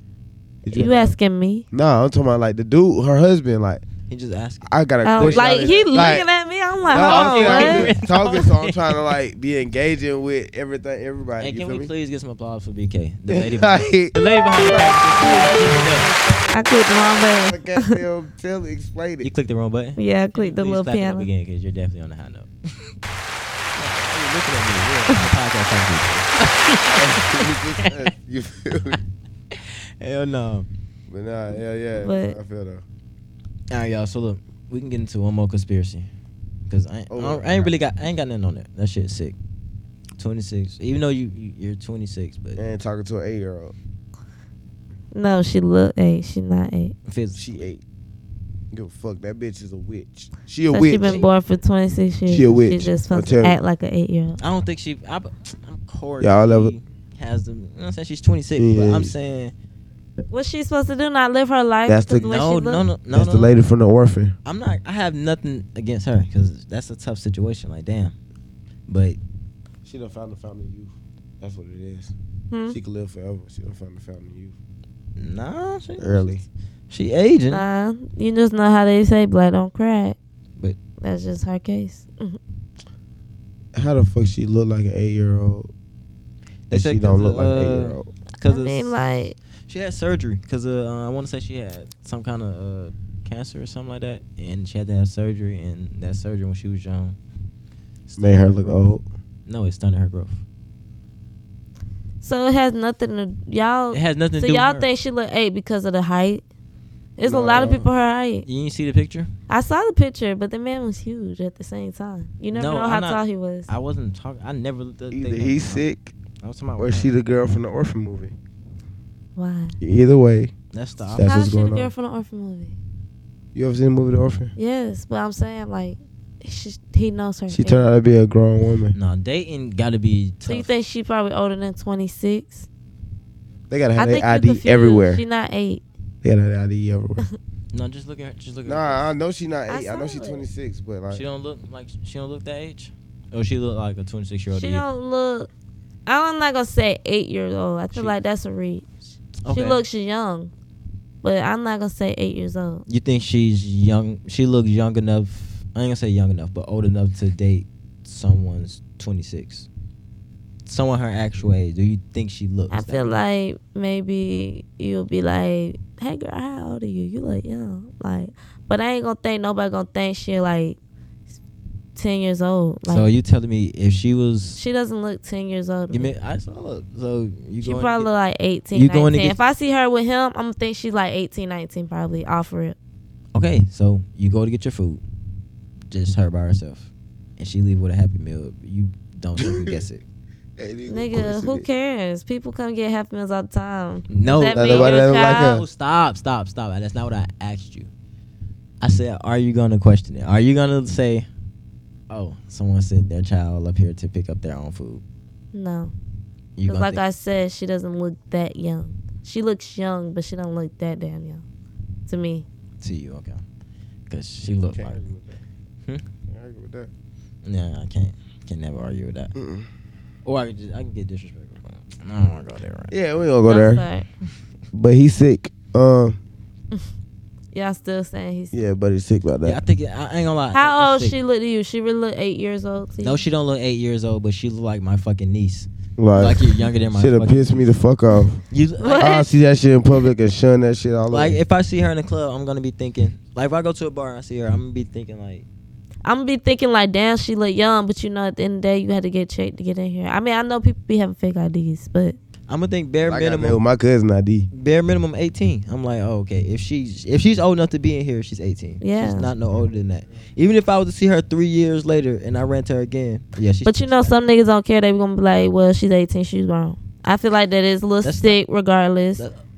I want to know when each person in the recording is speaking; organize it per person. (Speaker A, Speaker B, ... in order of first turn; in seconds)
Speaker A: 0.6-1.1, 1.7-3.8, 4.6-6.3, 6.8-11.9, 13.3-19.3, 26.9-29.0, 31.1-32.8, 37.1-37.7, 42.6-43.7, 47.4-47.8, 48.7-51.2, 52.3-53.6, 56.2-56.7, 58.6-59.1, 61.9-62.3, 63.1-64.3, 69.8-72.1, 72.7-74.5, 76.0-76.4, 83.7-85.7, 86.7-88.1, 98.2-99.0, 107.2-107.9, 115.1-116.1, 116.8-118.3, 119.8-120.5, 121.1-121.9, 123.5-124.5, 127.5-128.9, 133.7-135.2, 136.2-137.2, 138.7-141.2, 189.4-189.8, 190.6-191.7, 194.5-195.6, 214.7-215.4, 216.3-216.9, 219.3-219.7, 222.9-223.8, 224.7-226.2, 228.5-229.6, 236.0-238.4, 239.0-241.4, 253.0-254.5
Speaker B: 0.7-1.6, 5.0-7.9, 16.5-18.0, 20.0-21.3, 32.0-32.4, 45.1-46.9, 50.7-54.4, 60.3-62.9, 72.5-72.8, 77.5-80.2, 81.0-82.4, 88.4-89.3, 102.2-106.4, 107.2-108.5, 109.5-113.7, 119.3-119.8, 121.2-122.8, 124.6-127.8, 130.4-132.7, 134.0-135.8, 139.7-140.4, 144.5-145.5, 146.1-148.8, 149.5-150.5, 151.2-152.8, 162.7-170.8, 171.9-173.1, 174.6-176.1, 177.6-182.8, 190.9-195.6, 205.5-205.9, 206.7-211.4, 212.1-212.4, 223.5-224.1, 227.5-228.6, 230.5-233.2, 238.8-239.3, 246.0-252.2, 258.8-259.3, 263.6-269.2
Speaker C: 4.1-6.0, 6.9-9.0, 11.4-16.1, 19.2-22.5, 23.7-28.1, 29.5-30.7, 33.7-36.1, 36.7-39.4, 40.2-42.6, 47.1-47.4, 51.0-51.3, 54.4-59.5, 62.2-63.5, 64.4-68.1, 68.9-69.2, 75.2-77.6, 86.7-88.9, 89.7-97.2, 98.1-98.9, 99.5-100.4, 103.9-104.9, 108.4-109.3, 112.5-115.8, 116.4-117.1, 120.7-121.4, 128.9-130.7, 137.7-139.1, 141.1-144.8, 149.4-149.8, 152.9-159.7, 160.7-163.2, 172.9-174.6, 175.9-178.1, 178.7-179.4, 183.3-185.0, 185.9-190.0, 194.1-197.9, 198.8-201.3, 202.1-205.0, 206.6-207.0, 212.8-213.4, 214.1-215.0, 217.4-219.3, 220.2-222.9, 229.4-231.2, 233.0-237.7, 238.5-239.2, 241.1-245.4, 252.5-253.6, 254.5-264.1, 268.0-268.4